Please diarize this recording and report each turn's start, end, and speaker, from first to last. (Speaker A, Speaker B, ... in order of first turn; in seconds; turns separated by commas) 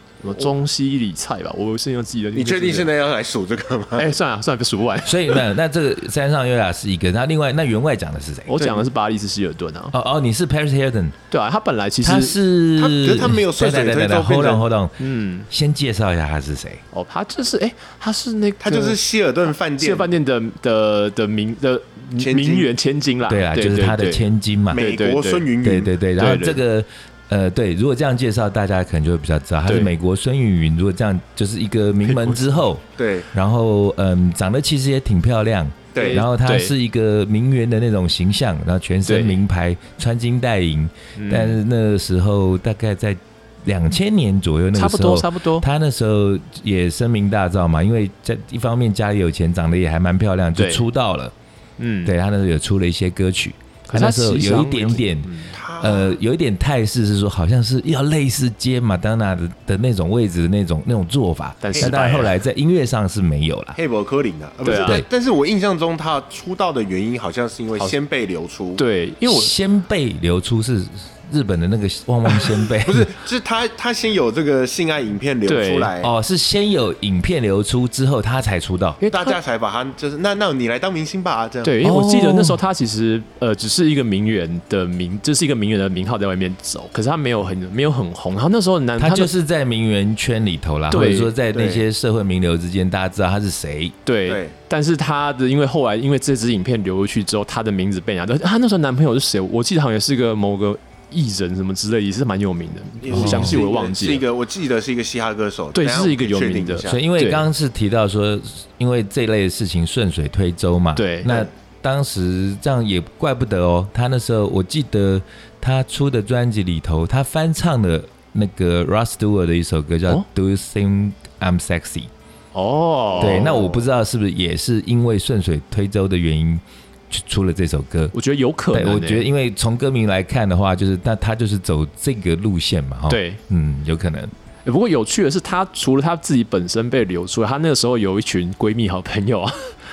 Speaker A: 0.2-2.9, Speaker B: 2.3-4.1, Speaker A: 4.0-5.5, Speaker C: 5.0-8.6, Speaker A: 8.5-9.9, Speaker B: 8.6-8.9, Speaker C: 9.9-11.2, Speaker A: 11.3-12.4, Speaker C: 12.0-16.8, Speaker B: 12.8-14.6, Speaker A: 15.0-15.5, Speaker A: 16.9-19.0, Speaker B: 18.6-20.1, Speaker A: 19.8-25.5, Speaker B: 22.2-22.7, Speaker C: 23.2-24.8, Speaker B: 24.7-25.9, Speaker C: 25.6-51.3, Speaker A: 26.1-26.6, Speaker A: 29.7-29.9, Speaker A: 32.0-32.6, Speaker B: 33.0-33.3, Speaker B: 35.9-36.2, Speaker A: 36.0-36.7, Speaker A: 39.0-39.4, Speaker A: 41.1-41.6, Speaker A: 44.7-45.6, Speaker A: 50.6-50.9, Speaker A: 51.8-52.1, Speaker C: 52.0-63.8, Speaker A: 53.9-55.5, Speaker B: 55.5-56.1, Speaker A: 61.6-62.3, Speaker B: 63.7-68.8, Speaker A: 64.6-65.0, Speaker C: 64.8-65.0, Speaker A: 68.8-69.5, Speaker C: 69.2-73.1, Speaker B: 72.8-76.1, Speaker A: 75.5-75.9, Speaker C: 76.0-79.0, Speaker A: 79.0-79.3, Speaker B: 79.1-81.8, Speaker A: 81.6-89.3, Speaker C: 81.8-82.6, Speaker C: 89.0-94.0, Speaker A: 90.9-91.3, Speaker B: 91.5-91.8, Speaker A: 94.0-104.2, Speaker B: 94.3-94.5, Speaker B: 103.0-107.0, Speaker C: 103.1-103.6, Speaker A: 105.7-107.5, Speaker C: 106.9-122.1, Speaker A: 111.0-111.3, Speaker A: 122.5-123.5, Speaker B: 123.1-123.9, Speaker C: 123.2-128.1, Speaker A: 128.1-129.2, Speaker C: 128.7-134.3, Speaker A: 133.1-133.4, Speaker A: 134.6-139.8